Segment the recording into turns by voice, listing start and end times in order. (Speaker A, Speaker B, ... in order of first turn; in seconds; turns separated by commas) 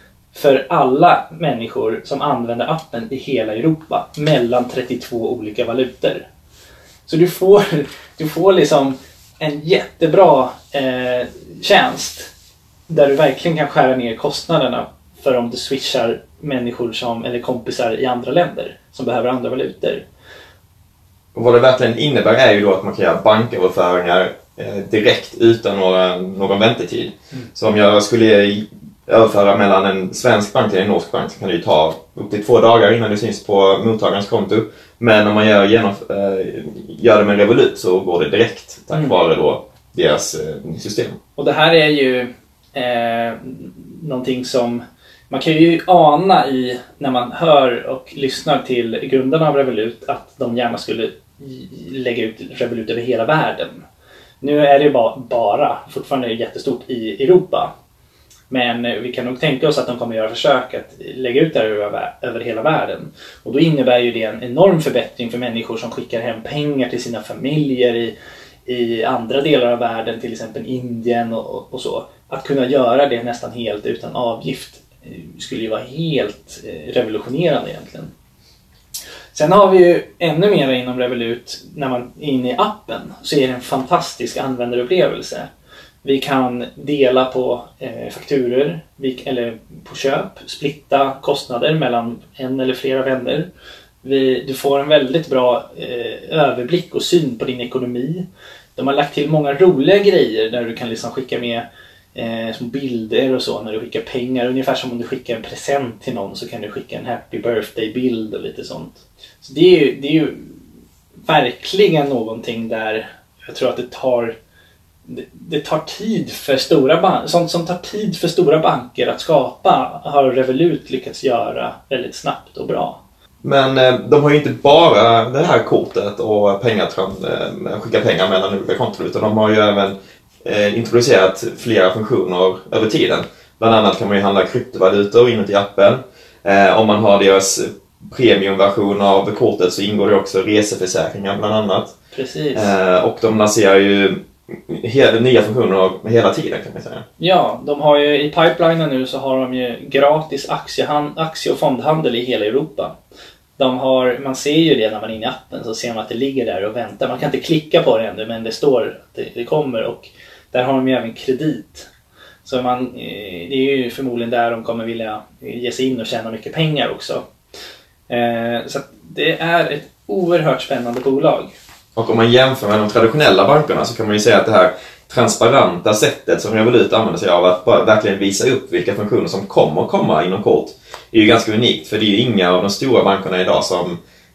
Speaker A: 0.3-6.3, Speaker A: 7.1-12.3, Speaker A: 12.9-20.0, Speaker B: 21.3-41.1, Speaker A: 41.4-53.8, Speaker A: 54.4-57.7, Speaker A: 58.5-68.1, Speaker A: 68.7-78.1, Speaker A: 79.3-85.5, Speaker A: 86.0-93.5, Speaker A: 94.0-98.2, Speaker A: 98.8-110.5, Speaker A: 111.2-114.3, Speaker A: 115.0-123.0, Speaker B: 123.4-141.9, Speaker A: 142.1-142.7, Speaker B: 142.5-147.0, Speaker A: 147.2-152.9, Speaker A: 153.6-161.9, Speaker A: 162.4-167.2, Speaker A: 168.1-171.5, Speaker B: 171.9-184.0